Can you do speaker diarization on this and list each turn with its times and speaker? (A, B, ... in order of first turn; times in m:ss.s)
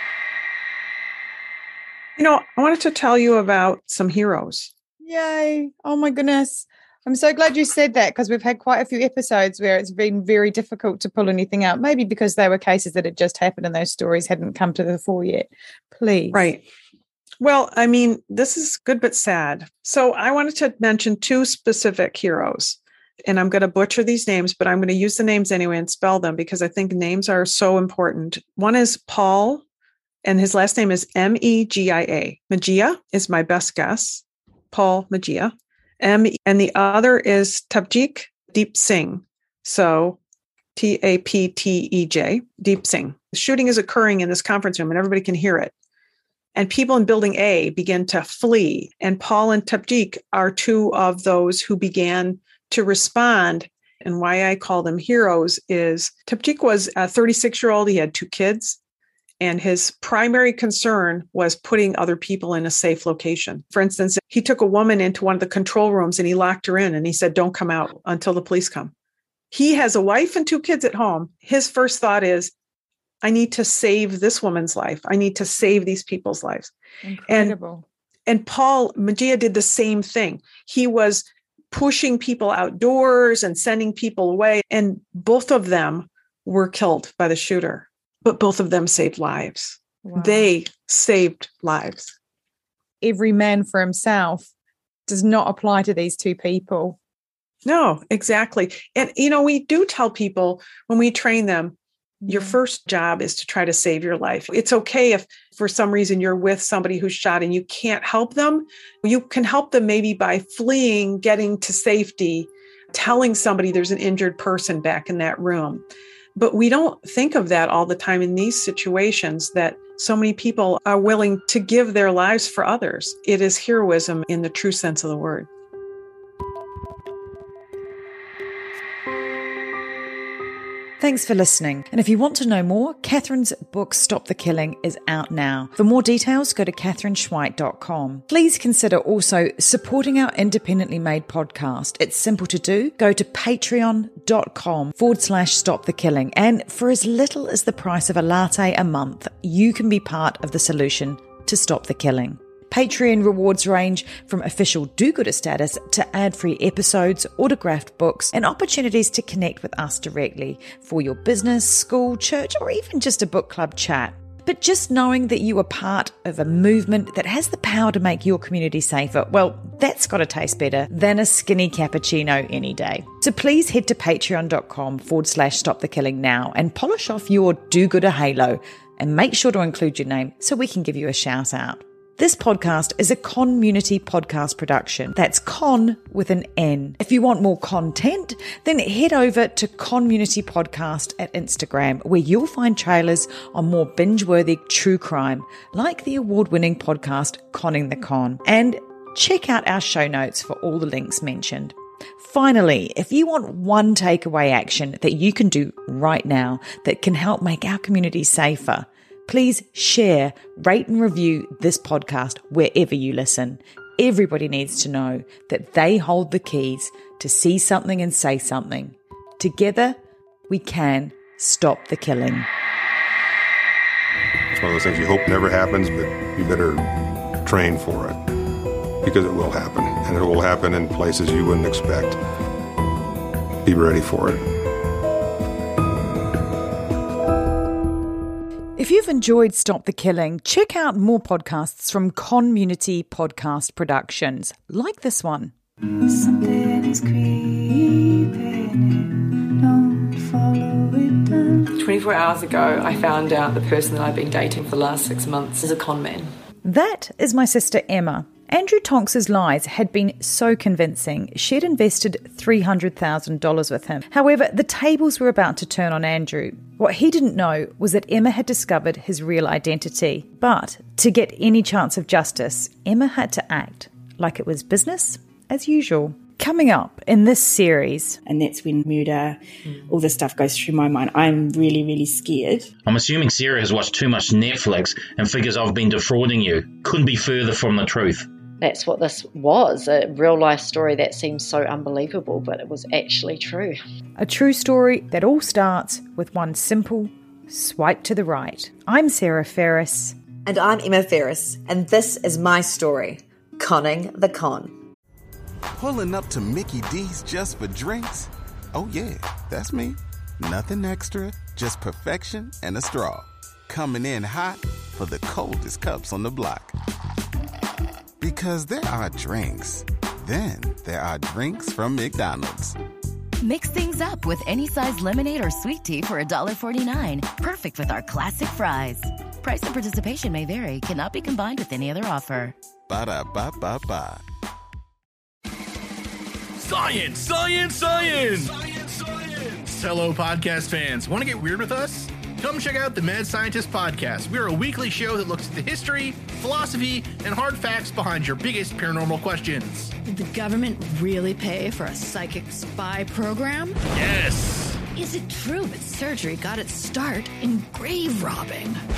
0:02.2-0:04.7 A
0:05.0-0:16.5 B
0:16.3-0:16.6 A
0:17.4-0:29.6 A
0:30.2-0:40.2 A
0:40.7-0:45.7 A
0:46.5-0:58.8 A
0:59.4-1:08.9 A
1:09.5-1:12.5 A
1:13.2-1:16.7 A
1:17.0-1:17.8 B
1:17.3-1:17.5 A
1:18.2-1:32.1 A
1:30.0-1:30.5 B
1:33.0-1:34.5 B
1:35.1-1:37.0 B
1:37.6-2:05.5 A
1:42.3-1:42.6 B
2:11.0-3:40.0 B
3:40.5-3:42.5 B
3:44.5-3:48.2 C
3:49.0-3:52.2 C
3:53.6-3:54.4 C
3:58.8-4:05.5 B
4:05.8-4:16.3 D
4:16.6-4:38.2 B
4:38.2-4:42.7 E
4:42.8-4:48.3 F
4:48.6-4:53.8 G
4:54.2-5:00.2 B
5:00.4-5:04.7 H
5:05.8-5:16.7 I
5:18.2-5:22.8 I
5:23.4-5:32.5 J
5:32.9-5:34.2 I
5:36.6-5:49.9 K
5:50.0-5:53.8 L
5:53.9-5:54.8 K
5:54.9-5:58.8 L